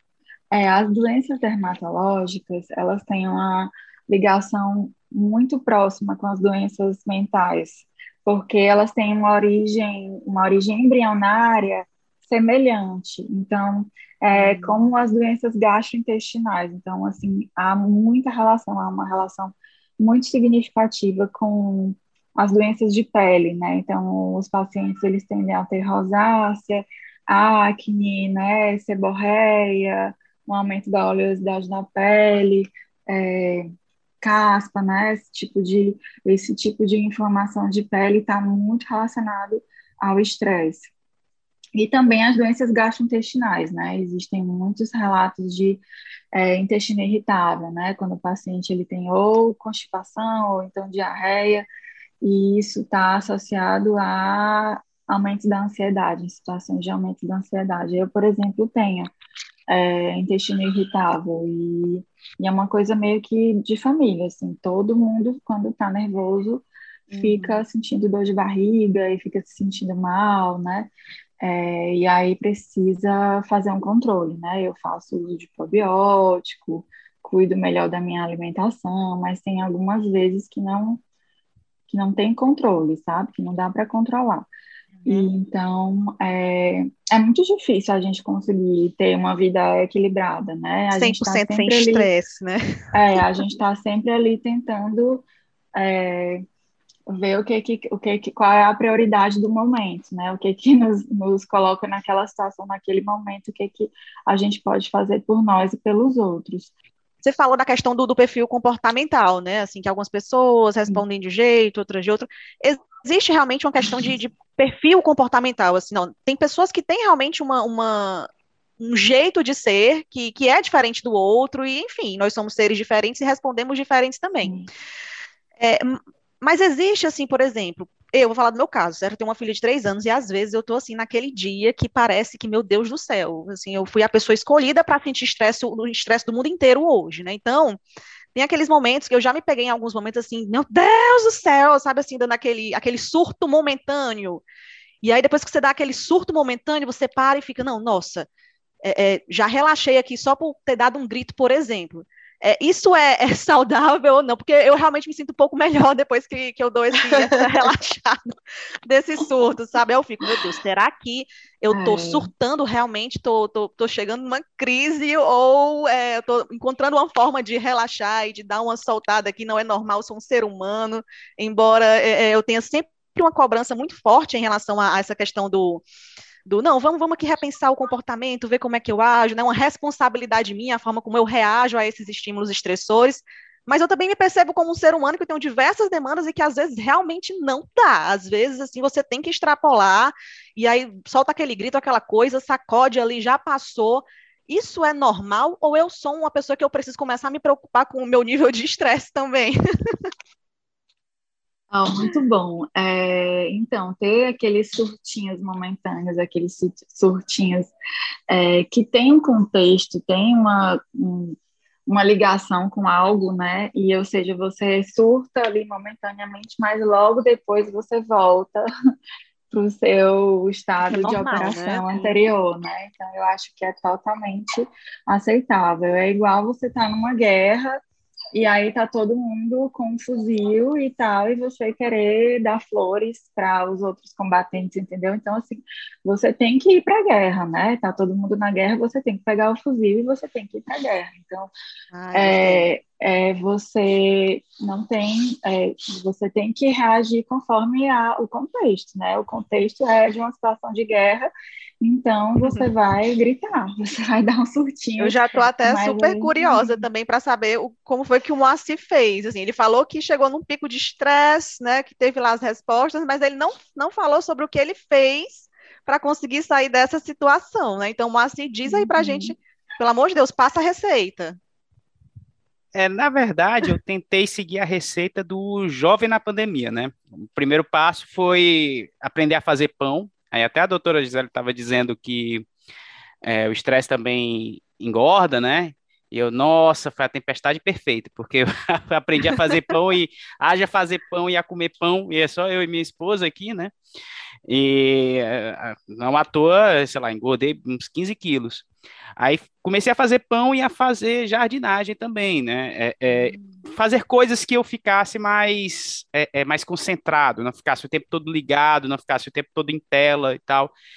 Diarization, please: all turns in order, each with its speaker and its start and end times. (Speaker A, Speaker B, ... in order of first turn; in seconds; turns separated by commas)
Speaker A: 0.5-33.7, Speaker B: 14.3-14.8, Speaker A: 34.2-40.9, Speaker A: 41.8-45.8, Speaker A: 46.3-51.6, Speaker A: 52.2-59.1, Speaker A: 59.7-81.0, Speaker B: 67.1-67.6, Speaker A: 81.9-84.5, Speaker A: 85.0-92.1, Speaker B: 90.9-92.6, Speaker A: 92.9-95.2, Speaker A: 95.7-96.4, Speaker A: 97.1-106.7, Speaker B: 107.2-118.3, Speaker B: 118.8-124.5, Speaker A: 124.4-124.7, Speaker B: 125.6-137.8, Speaker B: 138.3-144.4, Speaker B: 145.0-148.3, Speaker B: 148.8-158.3, Speaker B: 158.9-175.8, Speaker A: 161.7-162.3, Speaker B: 176.4-200.1, Speaker A: 201.7-207.7, Speaker A: 208.3-218.6, Speaker A: 219.5-227.8, Speaker B: 220.9-222.1, Speaker A: 228.3-241.5, Speaker B: 241.9-242.7, Speaker A: 242.1-256.8, Speaker B: 255.0-271.4, Speaker A: 268.6-269.3, Speaker C: 272.7-282.4, Speaker C: 283.2-293.7, Speaker C: 294.5-298.6, Speaker C: 299.2-310.7, Speaker B: 303.1-303.6